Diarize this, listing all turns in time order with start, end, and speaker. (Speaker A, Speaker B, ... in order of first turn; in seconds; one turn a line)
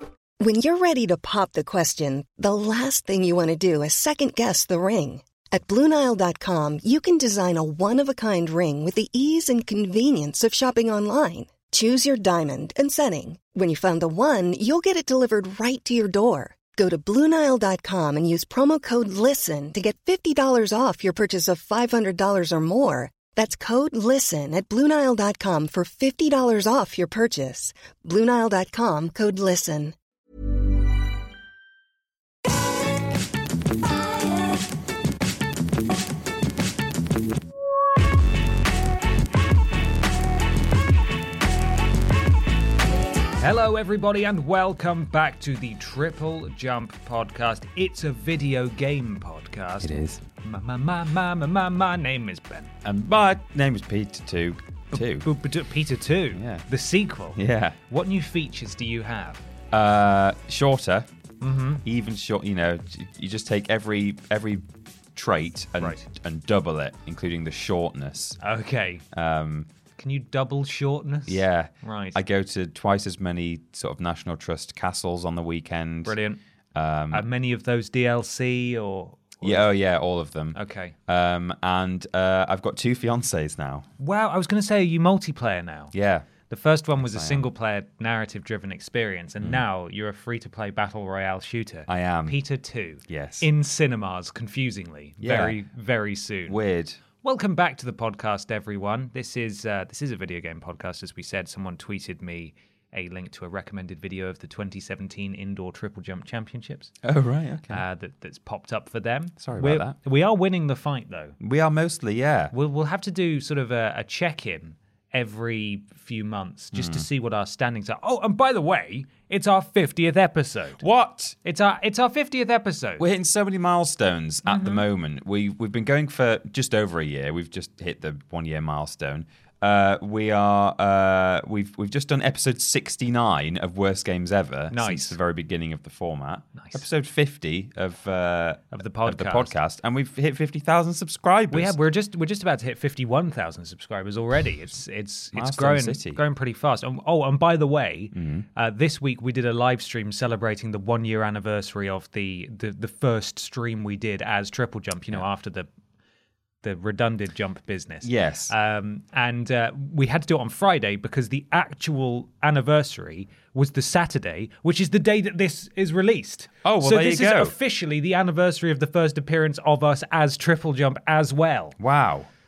Speaker A: 0.4-29.9
Speaker B: 43.4-52.7
Speaker C: 49.8-50.2
Speaker C: 52.8-55.3
Speaker B: 54.9-59.4
Speaker C: 56.3-56.6
Speaker C: 57.3-57.8
Speaker C: 59.7-61.1
Speaker B: 61.4-61.8
Speaker C: 61.8-68.4
Speaker B: 65.8-66.0
Speaker B: 68.4-69.0
Speaker C: 69.1-69.7
Speaker B: 70.0-72.2
Speaker C: 71.3-76.1
Speaker B: 76.0-76.4
Speaker C: 76.7-77.3
Speaker B: 77.1-79.7
Speaker C: 79.4-83.9
Speaker B: 80.5-80.9
Speaker B: 84.0-85.9
Speaker C: 85.9-86.3
Speaker B: 86.5-96.6
Speaker C: 87.0-87.5
Speaker C: 91.9-92.4
Speaker C: 93.1-93.5
Speaker C: 95.2-95.6
Speaker C: 96.5-97.0
Speaker B: 97.2-106.9
Speaker C: 107.0-107.8
Speaker B: 107.7-111.3
Speaker C: 109.4-110.0
Speaker C: 111.4-112.5
Speaker B: 112.5-120.8
Speaker C: 116.7-117.1
Speaker C: 120.8-121.4
Speaker B: 121.4-123.0
Speaker C: 123.0-141.8
Speaker B: 124.5-124.8
Speaker B: 134.7-135.2
Speaker B: 136.5-136.8
Speaker B: 138.7-139.5
Speaker B: 141.5-155.7
Speaker C: 145.3-146.2
Speaker C: 148.1-148.4
Speaker B: 156.6-171.8
Speaker C: 158.0-158.5
Speaker C: 166.6-167.5
Speaker C: 171.8-172.3